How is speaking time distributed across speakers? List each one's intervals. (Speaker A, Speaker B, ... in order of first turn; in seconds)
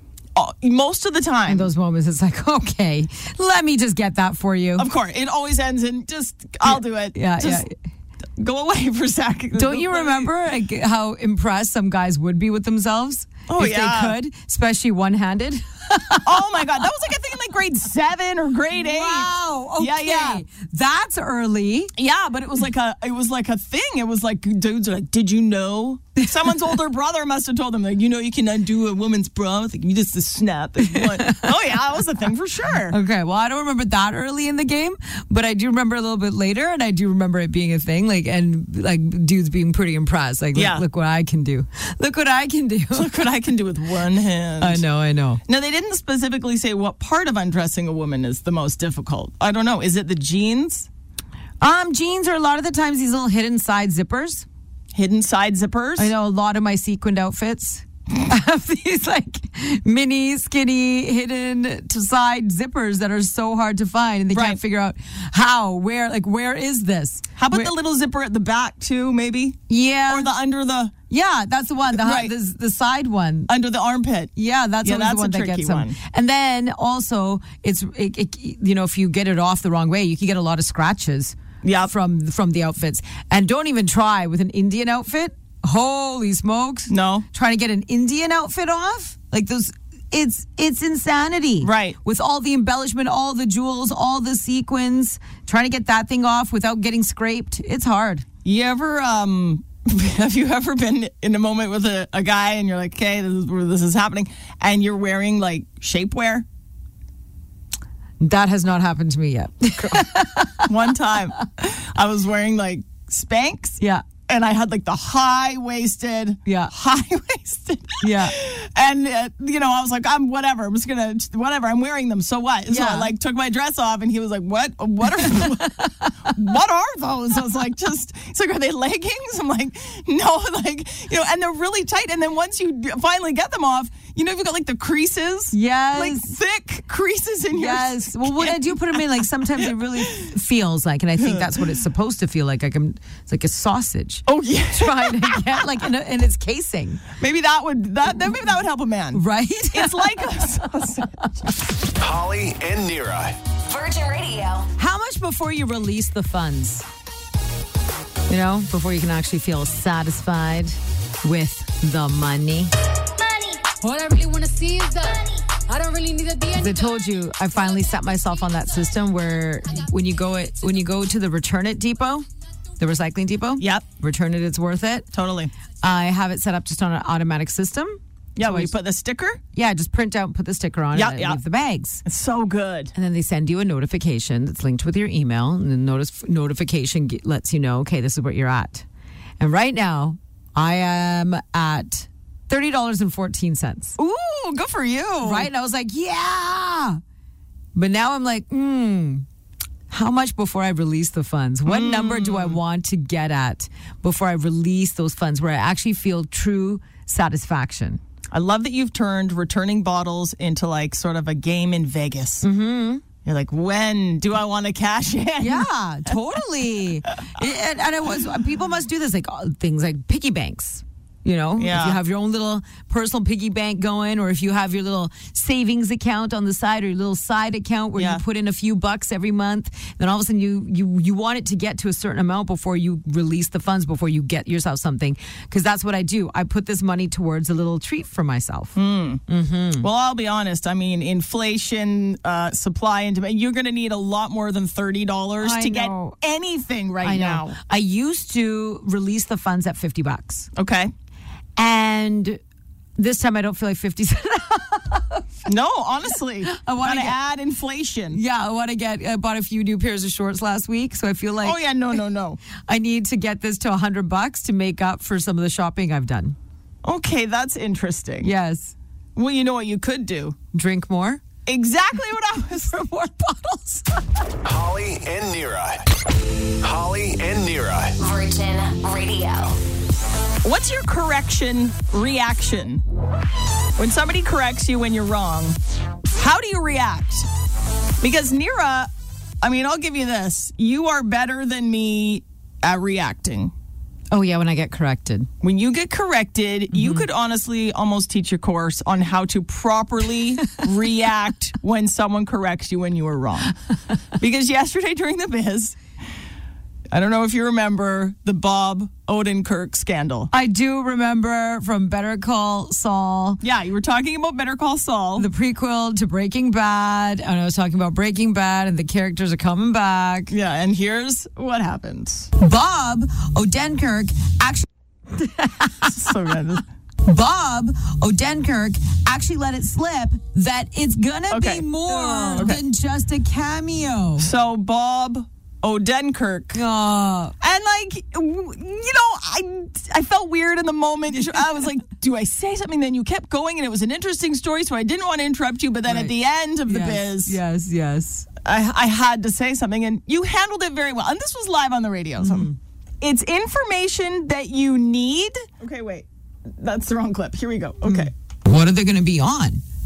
Speaker A: 0.3-1.7, 4.8-7.7, 8.4-10.3, 13.5-14.2, 16.2-20.4, 22.0-33.0, 40.5-40.8, 42.9-44.8, 45.5-50.9, 54.9-56.1, 64.3-64.6, 67.4-70.9, 71.9-72.3, 73.5-76.0, 81.6-81.9, 86.9-87.3, 91.6-92.0, 98.5-106.5, 109.8-110.1, 110.6-125.7, 126.3-140.3, 141.2-141.6, 144.3-145.7, 147.2-151.2, 173.6-173.8, 175.1-175.5, 178.4-179.4, 180.9-181.4, 182.1-182.9, 194.0-195.5, 201.7-202.6, 208.3-212.5, 213.2-215.7, 221.6-222.0, 228.0-228.2, 238.8-239.2, 239.8-247.6, 250.6-250.9, 255.5-258.2, 261.4-262.4, 266.8-268.3, 269.2-270.4, 271.5-272.8, 280.4-282.8, 283.8-285.6, 286.1-287.3, 288.0-288.9, 289.4-293.5, 295.4-303.6, 304.2-305.8, 306.9-310.3, 313.4-315.3, 320.3-322.3, 325.9-326.6, 331.3-332.6, 334.2-336.6, 337.4-347.4, 348.4-352.5, 353.0-358.1
Speaker B: 1.5-4.9, 6.7-7.7, 9.6-16.8, 18.7-21.9, 26.2-26.8, 30.8-31.6, 32.9-43.1, 44.6-45.4, 51.6-54.5, 56.0-67.7, 69.7-70.3, 71.1-73.5, 74.4-98.2, 108.2-110.7, 116.5-116.7, 118.0-118.4, 122.7-123.1, 125.2-126.3, 135.5-136.3, 137.5-147.0, 149.1-151.2, 154.8-156.8, 158.3-162.7, 166.6-172.3, 172.8-175.1, 175.8-178.7, 179.5-182.0, 182.9-188.8, 189.4-194.0, 195.2-197.0, 197.8-199.3, 199.9-208.0, 212.4-213.0, 215.4-238.8, 239.3-239.9, 245.4-246.2, 247.0-250.5, 251.6-252.4, 253.0-255.2, 256.4-257.2, 258.1-261.6, 262.7-266.4, 268.2-268.7, 270.5-271.2, 272.6-274.1, 294.1-295.3, 296.7-297.1, 310.3-313.4, 315.2-320.3, 322.4-326.2, 327.0-334.3, 336.5-337.4, 345.9-346.1, 346.7-348.3, 352.2-352.6, 357.8-359.6
Speaker C: 152.0-153.4, 274.4-275.9, 276.6-278.0
Speaker D: 153.7-154.7, 278.0-279.6
Speaker E: 163.2-167.1